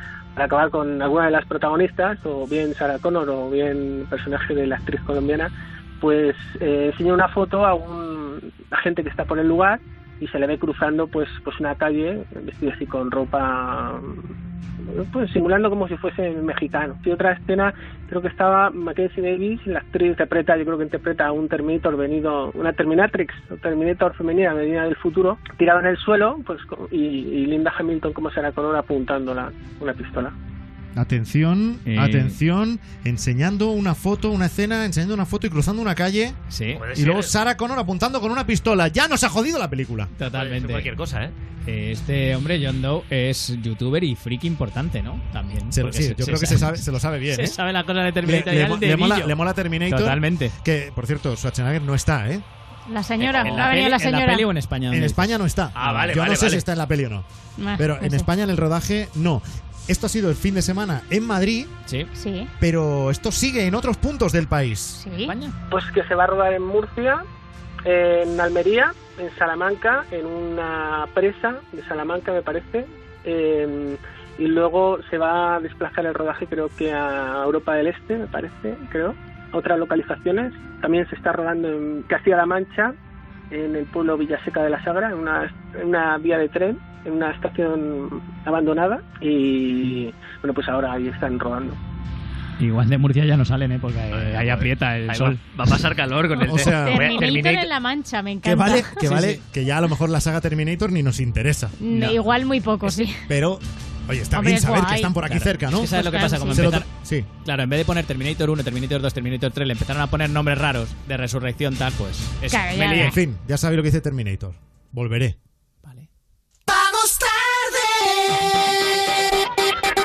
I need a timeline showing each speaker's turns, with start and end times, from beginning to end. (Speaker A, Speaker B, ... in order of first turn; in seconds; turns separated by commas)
Speaker A: 0.3-14.2, Speaker A: 14.9-30.4, Speaker B: 31.0-36.4, Speaker C: 31.9-32.4, Speaker C: 36.5-36.8, Speaker D: 36.7-37.4, Speaker B: 36.9-40.1, Speaker C: 40.2-40.9, Speaker D: 40.3-41.3, Speaker C: 41.7-50.5, Speaker B: 45.7-47.6, Speaker B: 48.2-52.4, Speaker E: 52.9-54.5, Speaker D: 53.2-53.8, Speaker C: 53.4-56.1, Speaker B: 54.9-57.2, Speaker D: 55.8-56.6, Speaker E: 57.6-58.3, Speaker B: 57.8-61.7, Speaker E: 62.1-62.5, Speaker B: 62.6-65.0, Speaker E: 65.0-65.3, Speaker C: 65.2-65.5, Speaker A: 65.7-67.2, Speaker A: 67.8-82.9, Speaker A: 83.5-91.8, Speaker C: 92.6-95.8, Speaker D: 94.1-97.7, Speaker B: 96.4-97.1, Speaker E: 96.7-99.0, Speaker B: 98.4-101.8, Speaker C: 99.0-99.4, Speaker E: 101.8-103.2, Speaker C: 101.9-102.2, Speaker B: 103.3-107.3, Speaker E: 104.3-105.2, Speaker C: 105.2-106.9, Speaker E: 105.9-106.7, Speaker C: 107.4-113.2, Speaker E: 112.5-113.2, Speaker B: 112.8-115.4, Speaker B: 116.7-118.1